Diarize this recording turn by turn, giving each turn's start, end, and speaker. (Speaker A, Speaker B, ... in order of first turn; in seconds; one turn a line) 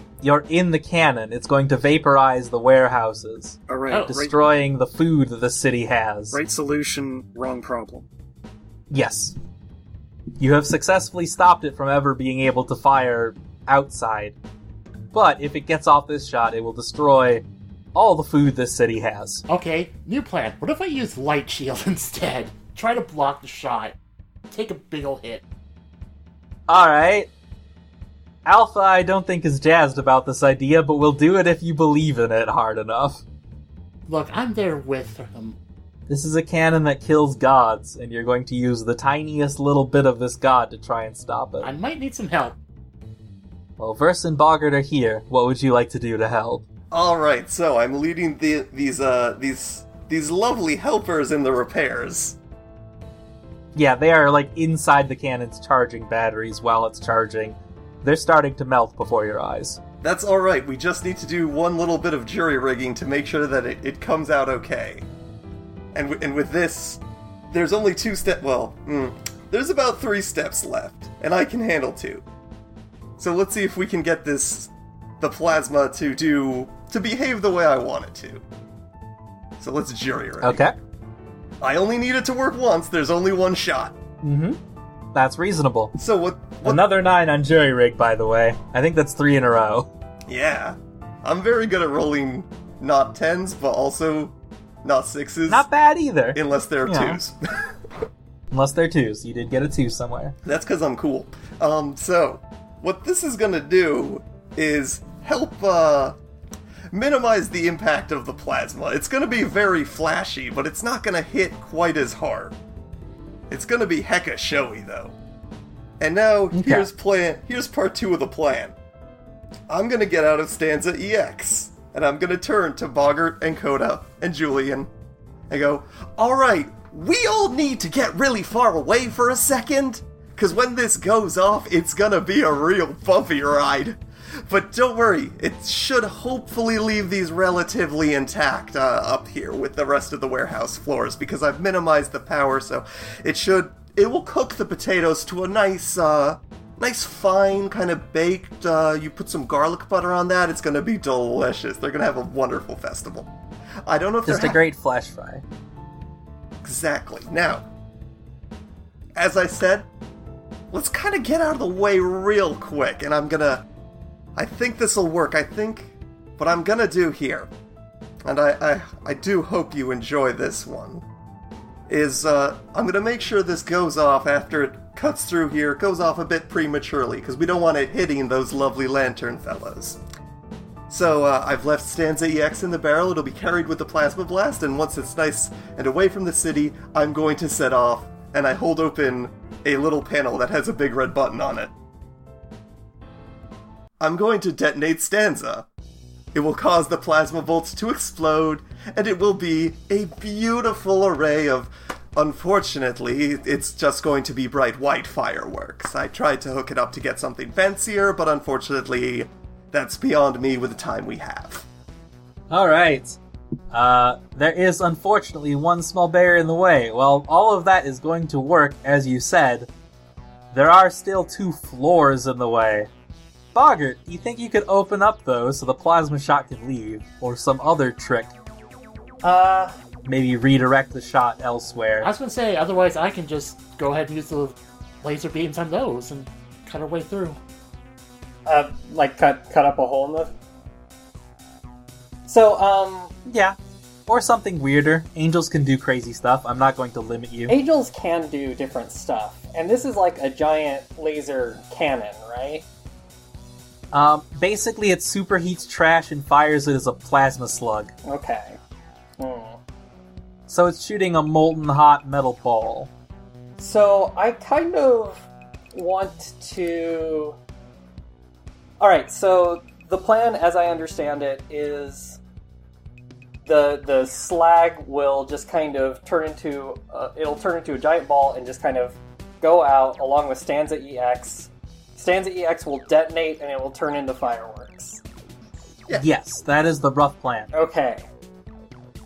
Speaker A: 0.2-6.4
Speaker B: 3.7-4.3
Speaker C: 3.9-4.2
Speaker B: 6.3-8.1
Speaker A: 8.9-9.3
Speaker A: 10.4-14.4
Speaker A: 15.1-19.4
Speaker C: 19.5-23.9
Speaker C: 24.5-25.4
Speaker A: 26.7-27.3
Speaker A: 28.4-33.2
Speaker C: 34.1-35.6
Speaker A: 36.1-41.7
Speaker C: 41.6-42.6
Speaker A: 43.8-46.6
Speaker D: 46.9-52.4
Speaker A: 53.7-59.8
Speaker D: 60.0-65.1
Speaker D: 65.9-72.2
Speaker D: 73.2-78.4
Speaker D: 79.6-80.6
Speaker A: 80.4-80.7
Speaker D: 81.6-84.0
Speaker A: 84.2-84.6
Speaker A: 85.1-85.9
Speaker D: 86.0-86.8
Speaker A: 86.6-89.9
Speaker D: 90.3-95.7
Speaker A: 95.5-97.2
Speaker D: 96.3-97.3
Speaker A: 98.5-100.4
Speaker D: 100.4-106.2
Speaker D: 106.9-112.5
Speaker D: 113.5-115.2
Speaker D: 116.0-118.7
Speaker A: 116.5-116.9
Speaker D: 119.7-124.9
Speaker D: 125.5-153.3
Speaker D: 153.8-154.6
Speaker A: 154.2-155.4
Speaker D: 156.6-157.7
Speaker D: 159.1-159.9
Speaker D: 160.7-163.7
Speaker D: 164.3-167.5
Speaker D: 168.2-171.0
Speaker D: 171.9-180.0
Speaker D: 180.9-191.7
Speaker D: 194.0-195.7
Speaker D: 196.3-211.6
Speaker A: 212.5-213.2
Speaker A: 213.7-219.7
Speaker A: 220.5-222.9
Speaker A: 223.5-228.3
Speaker E: 229.2-229.7
Speaker A: 230.1-232.1
Speaker C: 232.0-237.4
Speaker E: 238.4-240.3
Speaker E: 242.3-243.1
Speaker A: 243.2-243.6
Speaker A: 244.1-247.6
Speaker E: 247.5-252.7
Speaker A: 253.9-257.9
Speaker E: 258.0-258.6
Speaker E: 259.2-259.6
Speaker A: 260.5-262.9
Speaker E: 263.6-267.4
Speaker E: 268.8-272.2
Speaker E: 273.4-285.0
Speaker A: 285.9-287.5
Speaker E: 287.5-288.0